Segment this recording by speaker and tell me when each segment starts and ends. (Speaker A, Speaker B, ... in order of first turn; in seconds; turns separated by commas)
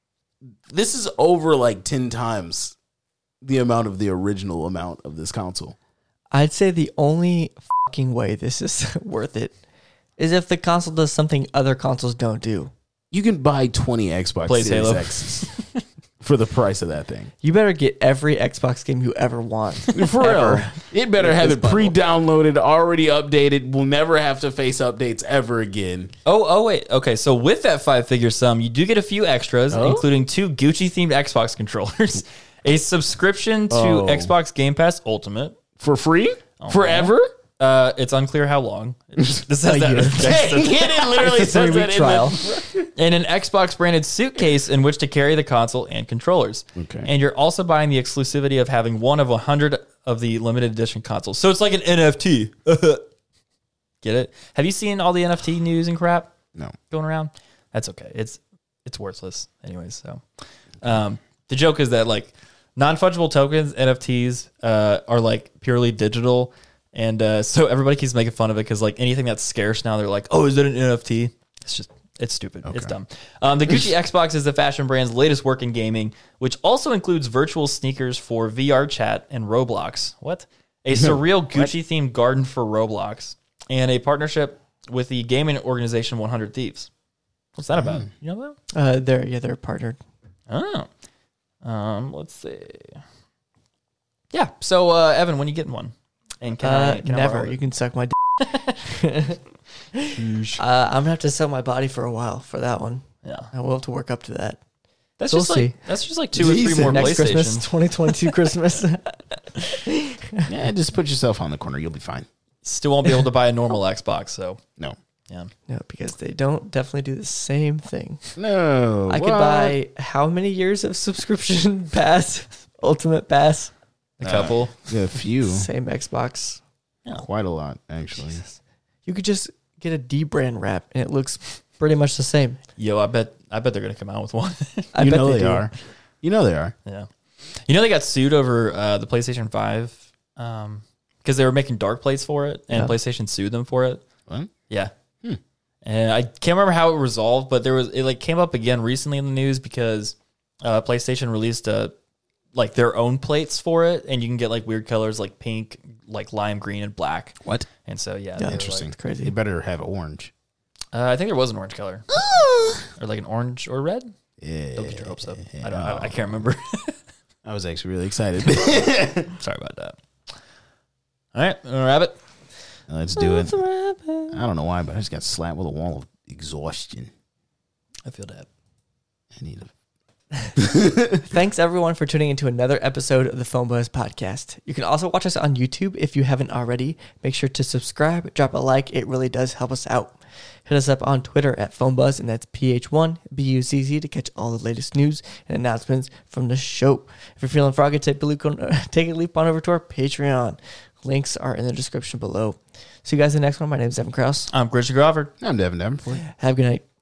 Speaker A: 0.7-2.8, Speaker A: 3.4-5.8, Speaker B: 6.3-9.6, Speaker B: 10.2-12.7, Speaker A: 13.1-15.5, Speaker C: 14.5-15.8, Speaker A: 16.2-17.3, Speaker B: 17.4-21.9, Speaker A: 19.9-26.1, Speaker C: 26.3-35.6, Speaker A: 29.7-30.1, Speaker A: 33.7-34.3, Speaker A: 35.8-37.3, Speaker C: 36.6-40.9, Speaker A: 39.3-42.9, Speaker B: 39.8-40.4, Speaker B: 40.9-42.4, Speaker C: 43.0-53.0, Speaker A: 46.8-47.1, Speaker C: 54.0-56.3, Speaker C: 56.9-60.2, Speaker C: 60.8-86.9, Speaker A: 72.7-73.0, Speaker A: 80.9-81.7, Speaker C: 87.6-88.6, Speaker A: 87.7-88.1, Speaker B: 88.8-90.0, Speaker C: 90.5-90.9, Speaker C: 91.6-93.0, Speaker C: 94.3-97.6, Speaker B: 96.6-99.4, Speaker B: 100.0-104.6, Speaker A: 100.2-100.5, Speaker C: 103.2-103.5, Speaker C: 105.2-108.2, Speaker B: 105.3-105.8, Speaker A: 106.3-107.3, Speaker B: 106.6-110.5, Speaker A: 110.5-112.3, Speaker C: 112.6-114.6, Speaker B: 115.7-118.2, Speaker A: 118.4-119.8, Speaker B: 119.1-123.7, Speaker C: 124.2-124.8, Speaker A: 124.2-125.7, Speaker B: 125.4-126.6, Speaker A: 127.1-128.4, Speaker B: 129.1-132.6, Speaker C: 132.8-134.9, Speaker B: 134.9-135.7, Speaker A: 135.0-136.7, Speaker C: 137.6-144.1, Speaker C: 145.8-151.9, Speaker C: 152.5-158.9, Speaker B: 158.4-159.3, Speaker A: 158.4-160.3, Speaker C: 160.9-162.2, Speaker A: 162.2-162.8, Speaker C: 162.9-164.1, Speaker A: 164.4-166.4, Speaker C: 164.8-167.0, Speaker A: 167.4-169.3, Speaker C: 169.3-170.0, Speaker C: 171.3-172.2, Speaker A: 172.9-173.6, Speaker B: 173.2-174.4, Speaker A: 174.3-177.1, Speaker C: 178.1-178.5, Speaker A: 179.3-179.7, Speaker A: 180.6-181.2, Speaker B: 181.2-204.5, Speaker C: 204.5-205.3, Speaker A: 205.4-206.2, Speaker B: 206.2-206.8